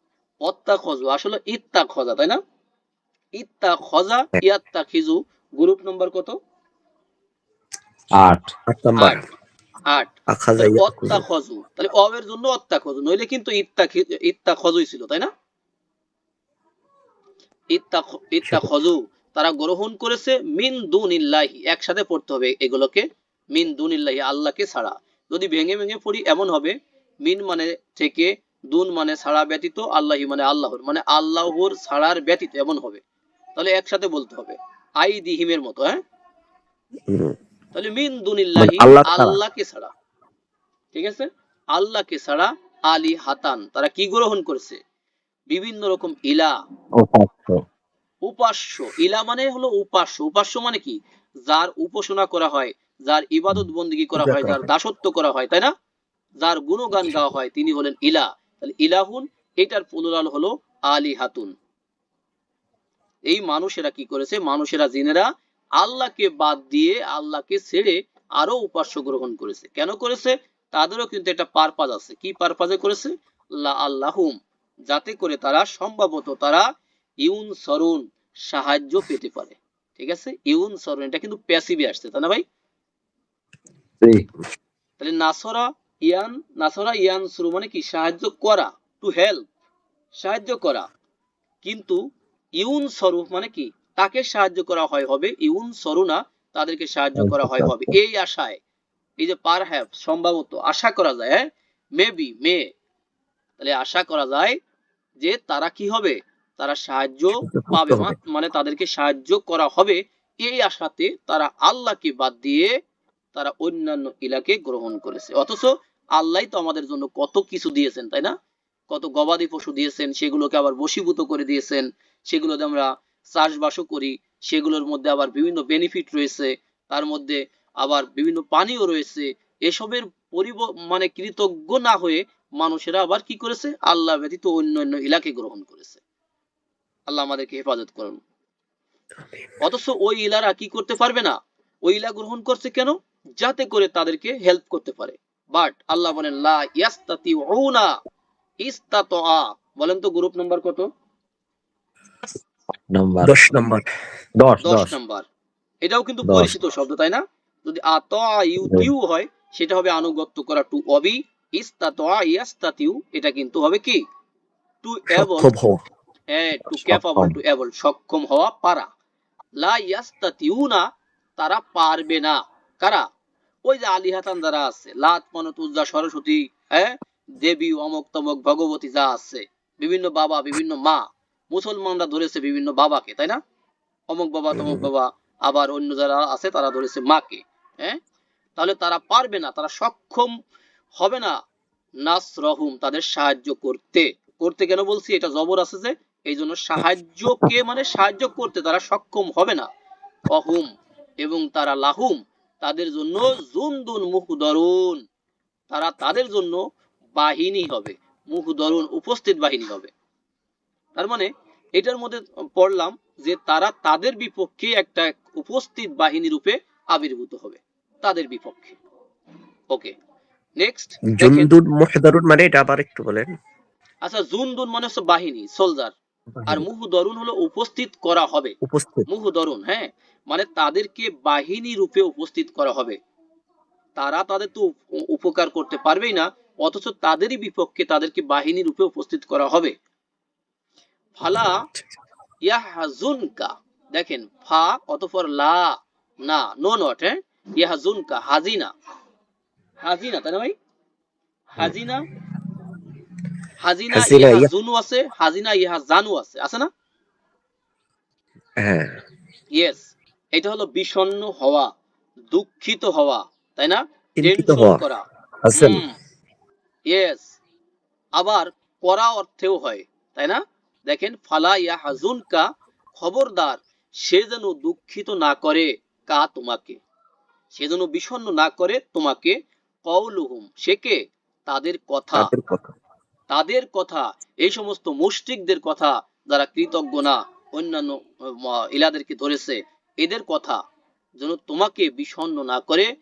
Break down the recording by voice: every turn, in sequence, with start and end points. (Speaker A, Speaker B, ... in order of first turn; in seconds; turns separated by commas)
Speaker A: 0.4-2.4, Speaker A: 3.4-6.4, Speaker B: 8.1-8.5, Speaker C: 8.7-9.2, Speaker A: 9.9-15.3, Speaker C: 10.3-11.2, Speaker A: 17.7-33.0, Speaker C: 18.4-18.7, Speaker A: 33.5-36.0, Speaker C: 37.1-37.3, Speaker A: 37.7-39.9, Speaker C: 38.6-39.4, Speaker A: 40.9-44.8, Speaker A: 45.5-46.5, Speaker B: 47.0-47.6, Speaker A: 48.2-55.7, Speaker C: 54.2-54.7, Speaker A: 56.4-61.5, Speaker C: 57.0-57.3, Speaker A: 63.3-65.3, Speaker A: 65.8-74.3, Speaker A: 74.9-76.6, Speaker A: 77.2-82.4, Speaker A: 85.0-89.4, Speaker A: 90.2-90.9, Speaker A: 91.6-92.0, Speaker A: 92.6-98.6, Speaker C: 97.2-97.8, Speaker A: 99.2-102.7, Speaker A: 103.6-104.6, Speaker A: 105.2-112.7, Speaker C: 107.6-108.0, Speaker A: 113.3-118.3, Speaker A: 118.9-136.0, Speaker A: 137.1-138.2, Speaker A: 139.6-147.9, Speaker A: 148.6-150.9, Speaker B: 152.9-153.3, Speaker C: 153.2-153.9, Speaker B: 154.4-155.0, Speaker A: 154.6-155.2, Speaker A: 155.8-164.0, Speaker B: 156.2-156.6, Speaker B: 158.6-158.9, Speaker A: 164.8-165.5, Speaker C: 165.1-165.8, Speaker A: 166.3-168.9, Speaker B: 166.7-167.3, Speaker A: 169.6-170.8, Speaker A: 171.4-173.0, Speaker A: 173.7-183.4, Speaker A: 184.1-188.0, Speaker C: 184.6-184.8, Speaker A: 188.6-190.3, Speaker A: 191.0-191.3, Speaker A: 192.0-199.7, Speaker A: 200.3-200.7, Speaker A: 201.2-205.0, Speaker A: 205.7-206.6, Speaker A: 207.2-209.9, Speaker A: 210.9-218.8, Speaker A: 220.6-221.5, Speaker C: 221.1-223.3, Speaker A: 224.0-225.9, Speaker C: 226.3-226.7, Speaker A: 226.5-228.5, Speaker C: 228.6-229.1, Speaker A: 229.1-232.9, Speaker A: 234.0-239.7, Speaker A: 241.2-241.6, Speaker C: 241.3-241.8, Speaker A: 242.4-248.7, Speaker A: 249.8-250.5, Speaker A: 251.5-252.1, Speaker A: 253.6-256.7, Speaker C: 253.9-254.5, Speaker C: 258.6-259.0, Speaker A: 259.5-261.7, Speaker A: 262.3-265.9, Speaker C: 264.2-264.8, Speaker C: 265.4-265.8, Speaker A: 266.9-267.2, Speaker A: 268.1-276.8, Speaker A: 277.5-282.3, Speaker C: 282.1-282.7, Speaker A: 283.3-290.6, Speaker A: 291.2-292.9